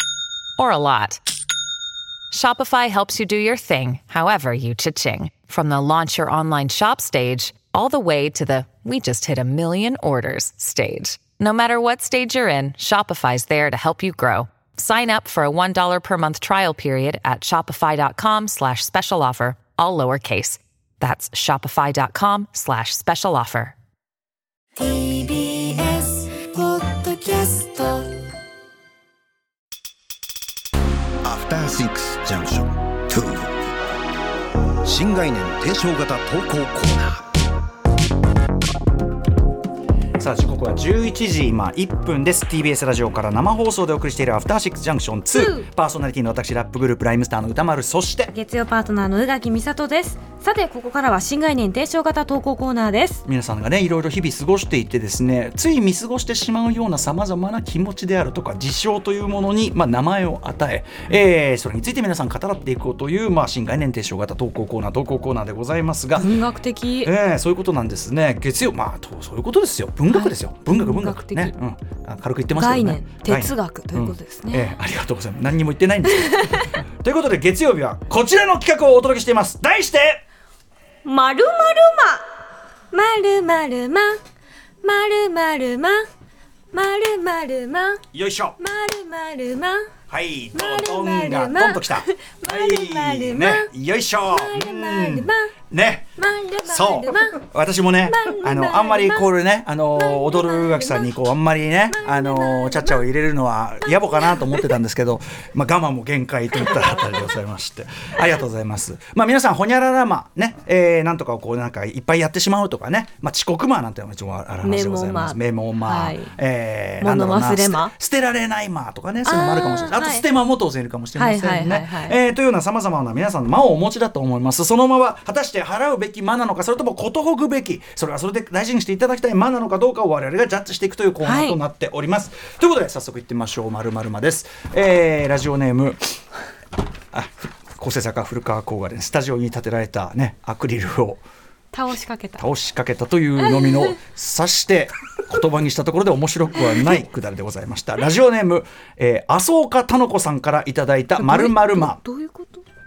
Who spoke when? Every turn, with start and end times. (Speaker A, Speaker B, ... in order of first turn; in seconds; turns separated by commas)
Speaker A: 0.6-1.2, Speaker A: 2.3-23.8, Speaker B: 24.8-25.8, Speaker C: 24.9-25.2, Speaker C: 25.8-28.1, Speaker B: 26.4-27.6, Speaker B: 31.2-33.7, Speaker B: 34.8-37.2, Speaker D: 40.2-48.3, Speaker E: 45.3-45.7, Speaker E: 48.3-53.2, Speaker D: 53.3-66.4, Speaker E: 66.2-67.1, Speaker D: 67.0-80.2, Speaker E: 70.1-71.5, Speaker E: 72.5-74.8, Speaker E: 81.0-82.3, Speaker E: 82.9-84.2, Speaker E: 84.8-86.0, Speaker E: 86.7-88.0, Speaker D: 88.1-88.6, Speaker E: 88.6-89.9, Speaker D: 90.1-136.0, Speaker E: 90.5-93.7, Speaker E: 94.3-95.5, Speaker E: 96.2-97.4, Speaker E: 98.1-99.3, Speaker E: 100.0-101.1, Speaker E: 101.9-103.0, Speaker E: 103.8-104.8, Speaker E: 114.6-116.3, Speaker E: 117.0-117.9, Speaker E: 119.2-120.3, Speaker E: 121.2-122.2, Speaker E: 131.2-131.6, Speaker D: 137.1-141.2, Speaker E: 141.7-142.4, Speaker D: 142.4-152.0, Speaker E: 143.6-143.9, Speaker E: 151.2-152.6